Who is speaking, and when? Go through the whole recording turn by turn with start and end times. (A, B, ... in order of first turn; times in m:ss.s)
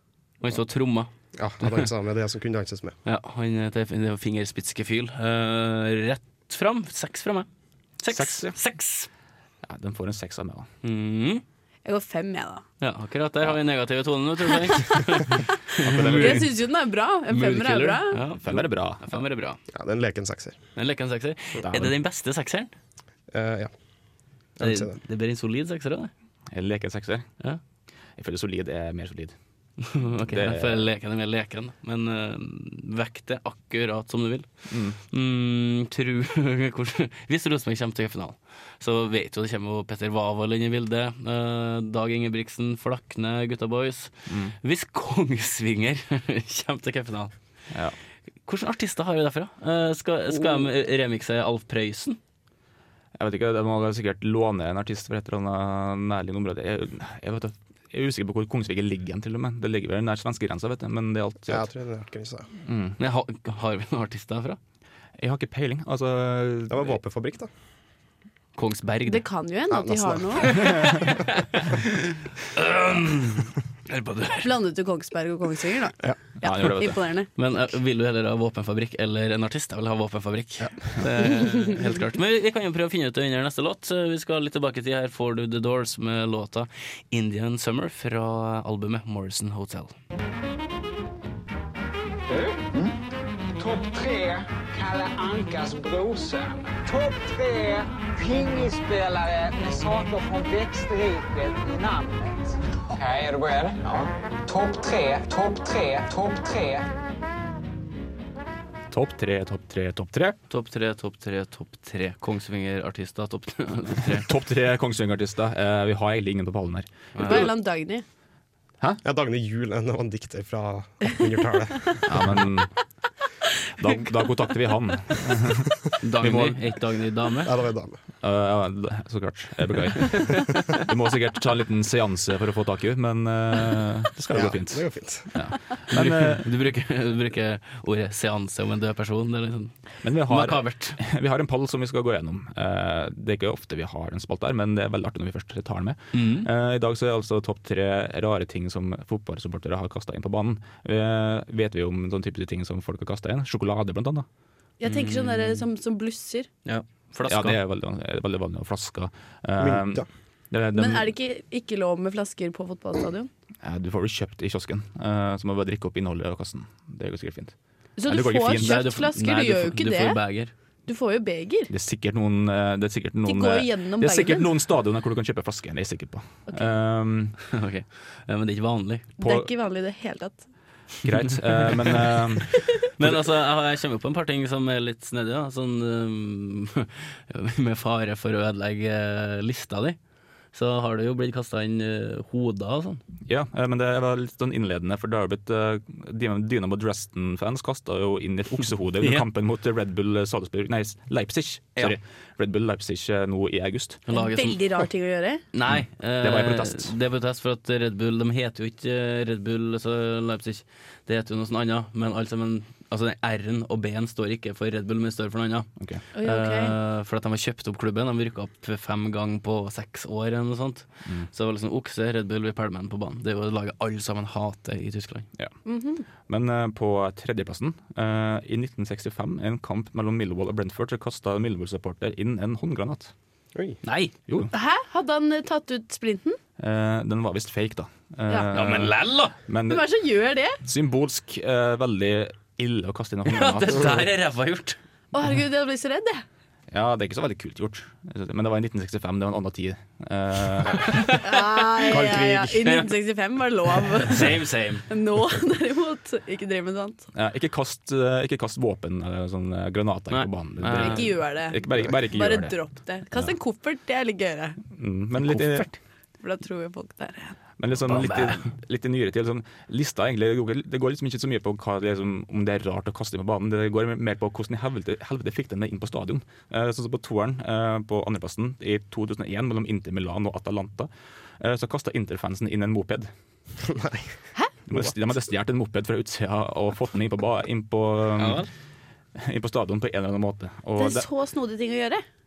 0:00.4-0:01.1 A
0:01.4-0:02.9 B
0:03.0-0:07.5 A
0:08.0-0:09.1 A
0:08.1-0:08.6 C
0:09.6-0:10.7 C
0:10.8-0:11.4 A
0:11.8-0:12.6 D
0:12.8-0:16.4 A
0:15.8-0:16.5 C
0:16.2-0:18.2 D
0:17.3-0:19.6 A
0:18.4-0:19.2 C
0:19.7-0:20.6 B
0:20.8-0:22.7 A
0:23.3-0:23.7 B
0:24.6-0:25.0 B
0:24.6-0:26.1 A
0:26.5-0:27.3 C
0:28.2-0:29.3 C
0:29.8-0:34.5 A
0:30.2-0:30.9 C
0:34.7-0:35.0 C
0:35.0-0:47.3 A
0:44.3-0:44.6 C
0:48.4-0:52.2 A
0:53.2-1:01.7 C
1:01.5-1:02.5 B
1:02.6-1:03.0 C
1:03.0-1:04.6 A
1:05.2-1:07.0 C
1:06.7-1:07.5 B
1:08.6-1:09.2 A
1:09.1-1:11.1 D
1:09.7-1:11.1 B
1:10.5-1:11.7 A
1:12.5-1:14.5 A
1:14.4-1:17.3 D
1:16.4-1:17.0 C
1:17.4-1:29.9 A
1:32.3-1:32.9 E
1:33.5-1:46.9 E
1:48.9-1:50.4 C
1:50.5-1:54.3 A
1:54.0-1:57.5 C
1:57.1-1:57.4 A
1:57.2-1:58.0 D
1:59.0-2:02.4 B
2:02.0-2:02.7 C
2:03.8-2:06.6 C
2:06.0-2:07.5 A
2:07.4-2:08.0 B
2:08.2-2:16.5 C
2:14.3-2:15.3 B
2:15.9-2:19.7 A
2:20.0-2:34.2 C
2:20.2-2:21.0 A
2:26.1-2:26.5 A
2:34.8-2:36.5 D
2:34.8-2:35.6 A
2:36.6-2:37.6 A
2:37.3-2:41.1 C
2:39.6-2:40.1 B
2:40.7-2:43.3 D
2:43.6-2:47.5 C
2:48.0-2:50.2 D
2:48.0-2:48.8 C
2:48.6-2:50.5 A
2:50.8-2:51.7 D
2:51.7-2:57.4 C
2:53.2-2:54.5 D
2:57.5-2:59.1 A
2:59.2-3:00.4 D
2:59.2-2:59.5 C
3:01.0-3:03.3 C
3:03.0-3:10.0 A
3:10.5-3:13.0 A
3:13.3-3:24.0 C
3:24.1-3:24.6 A
3:24.1-3:25.4 D
3:25.5-3:35.7 A
3:25.7-3:26.9 C
3:35.8-3:36.0 C
3:36.1-3:36.7 D
3:36.2-3:45.3 A
3:45.6-3:46.0 D
3:46.3-3:53.1 C
3:53.8-3:54.1 A
3:54.5-3:56.4 D
3:56.6-3:59.9 C
3:58.5-3:59.4 A
3:59.7-4:00.6 D
4:00.6-4:04.1 C
4:03.3-4:04.8 A
4:05.1-4:06.2 D
4:06.7-4:11.2 C
4:10.8-4:12.9 A
4:11.2-4:17.0 D
4:11.8-4:12.8 C
4:13.9-4:14.9 A
4:17.1-4:22.6 C
4:20.1-4:21.1 A
4:20.8-4:24.6 D
4:24.7-4:25.7 C
4:25.2-4:25.8 A
4:26.2-4:27.4 D
4:27.6-4:43.1 C
4:27.8-4:28.5 A
4:43.6-4:44.2 B
4:44.7-4:48.4 C
4:48.2-4:48.5 A
4:49.2-4:51.1 C
4:50.8-4:52.0 D